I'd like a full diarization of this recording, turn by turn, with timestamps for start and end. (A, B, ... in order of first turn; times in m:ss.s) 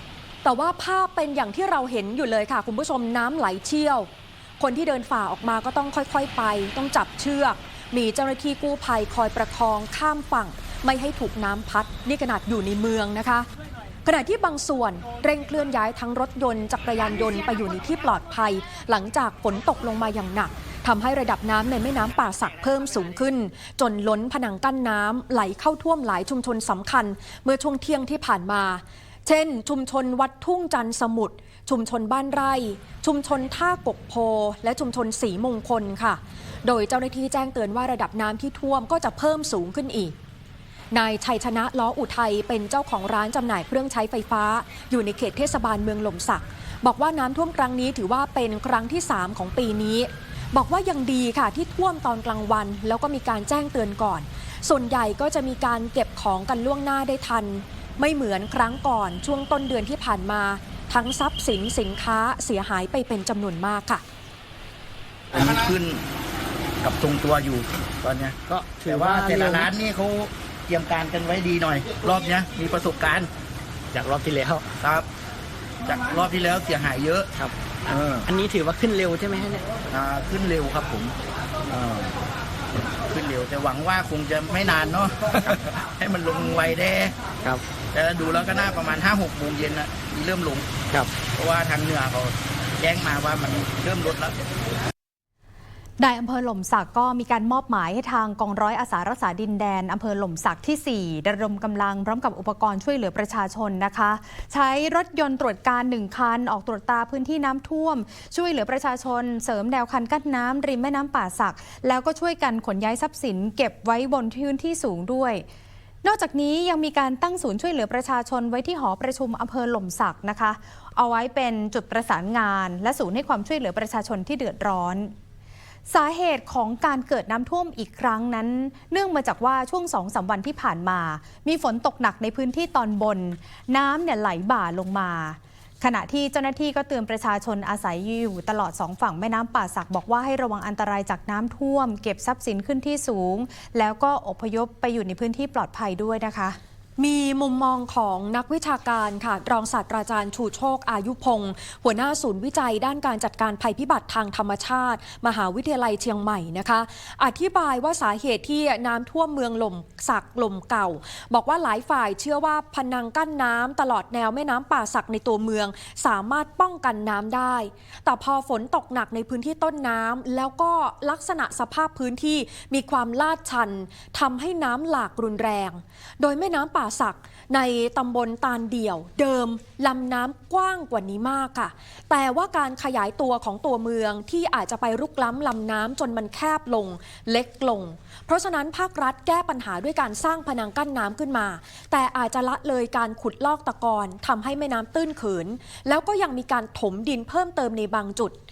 0:00.4-0:04.1 A
0:04.6-0:13.5 A
0:14.0-0:40.2 A
0:40.9-1:04.0 A
1:05.3-1:06.0 B
1:05.3-1:05.6 C
1:06.8-1:13.3 B
1:08.5-1:09.7 C
1:13.9-1:14.7 C
1:14.8-1:15.1 B
1:15.8-1:17.3 B
1:17.4-1:19.6 C
1:17.9-1:18.2 B
1:19.9-1:21.1 B
1:21.7-1:22.1 B
1:23.1-1:27.2 B
1:27.9-1:30.7 B
1:31.3-1:34.3 B
1:36.0-1:55.4 D
1:56.0-2:05.1 D
2:05.9-2:26.6 D
2:27.0-3:18.4 A